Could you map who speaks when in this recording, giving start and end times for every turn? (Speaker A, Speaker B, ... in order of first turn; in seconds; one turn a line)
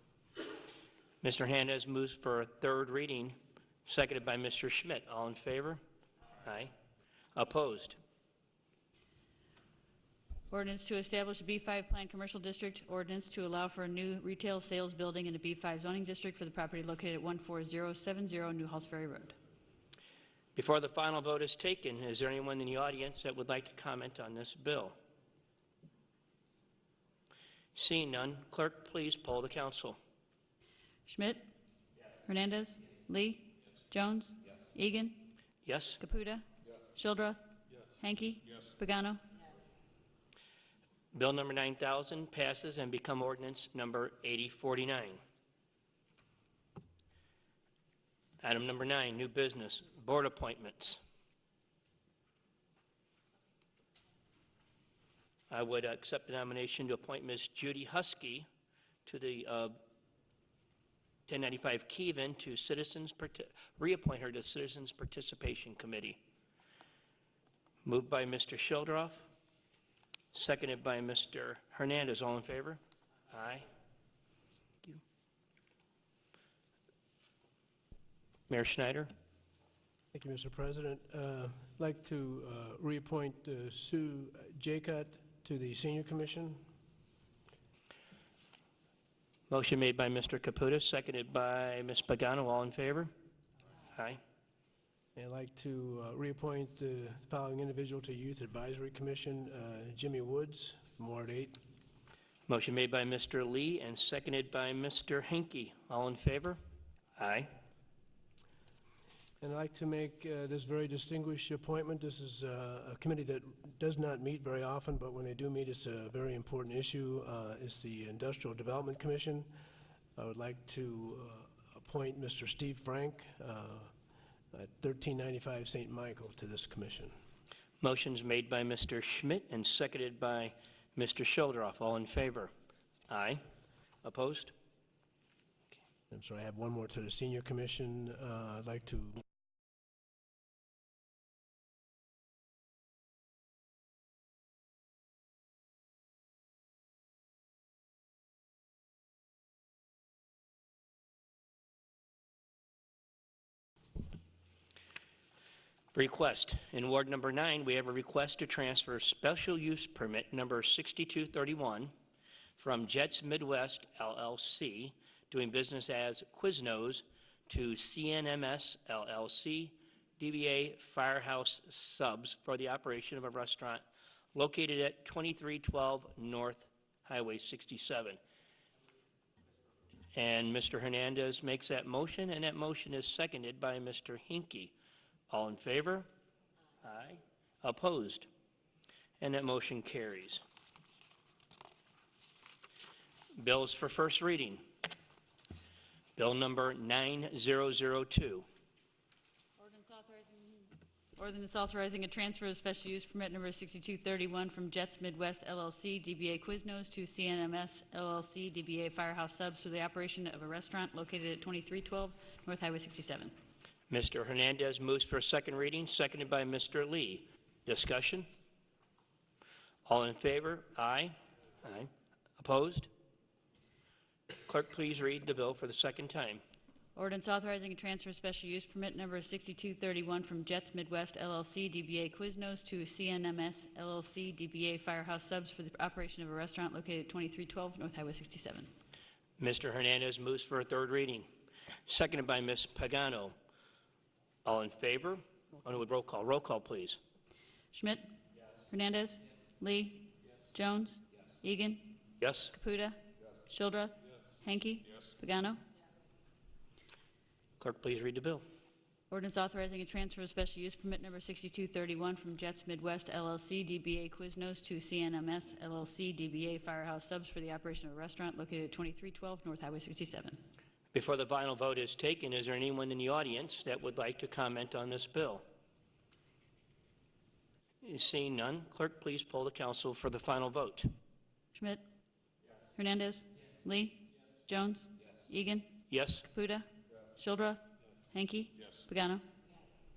Speaker A: 1.2-5.8
Speaker A: 6.4-6.7
Speaker A: 7.3-8.0
Speaker B: 10.5-19.4
Speaker A: 20.6-24.9
Speaker A: 27.7-30.0
Speaker B: 31.1-31.4
Speaker B: 32.2-35.3
Speaker A: 35.6-36.0
Speaker B: 36.0-39.2
Speaker A: 41.1-45.2
Speaker A: 48.4-51.0
Speaker A: 55.5-58.5
Speaker A: 59.0-59.8
Speaker A: 61.3-66.2
Speaker A: 67.8-69.3
Speaker A: 70.3-73.7
Speaker A: 78.5-79.1
Speaker C: 80.1-86.6
Speaker A: 89.5-93.1
Speaker A: 93.9-94.2
Speaker C: 95.1-101.5
Speaker A: 102.5-106.6
Speaker A: 107.2-107.5
Speaker C: 109.4-119.5
Speaker C: 120.2-123.9
Speaker C: 124.5-127.1
Speaker A: 127.8-132.5
Speaker A: 133.1-133.4
Speaker A: 134.0-134.5
Speaker C: 136.1-139.2
Speaker A: 155.9-161.9
Speaker A: 162.6-173.8
Speaker A: 174.3-178.2
Speaker A: 180.1-184.7
Speaker A: 185.3-186.1
Speaker A: 186.8-188.3
Speaker A: 189.2-190.4
Speaker A: 193.3-194.6
Speaker A: 196.2-198.4
Speaker B: 199.6-213.3
Speaker A: 213.9-218.2
Speaker A: 219.8-222.9
Speaker A: 224.3-226.4
Speaker B: 226.9-238.7
Speaker A: 239.4-241.3
Speaker A: 241.9-243.3
Speaker A: 244.4-247.0
Speaker B: 247.7-248.1
Speaker B: 248.7-255.6
Speaker A: 252.2-252.5
Speaker A: 257.6-258.4
Speaker B: 259.1-270.4
Speaker A: 270.9-275.4
Speaker A: 277.8-280.9
Speaker B: 281.5-281.8
Speaker B: 282.8-289.2
Speaker A: 285.9-286.2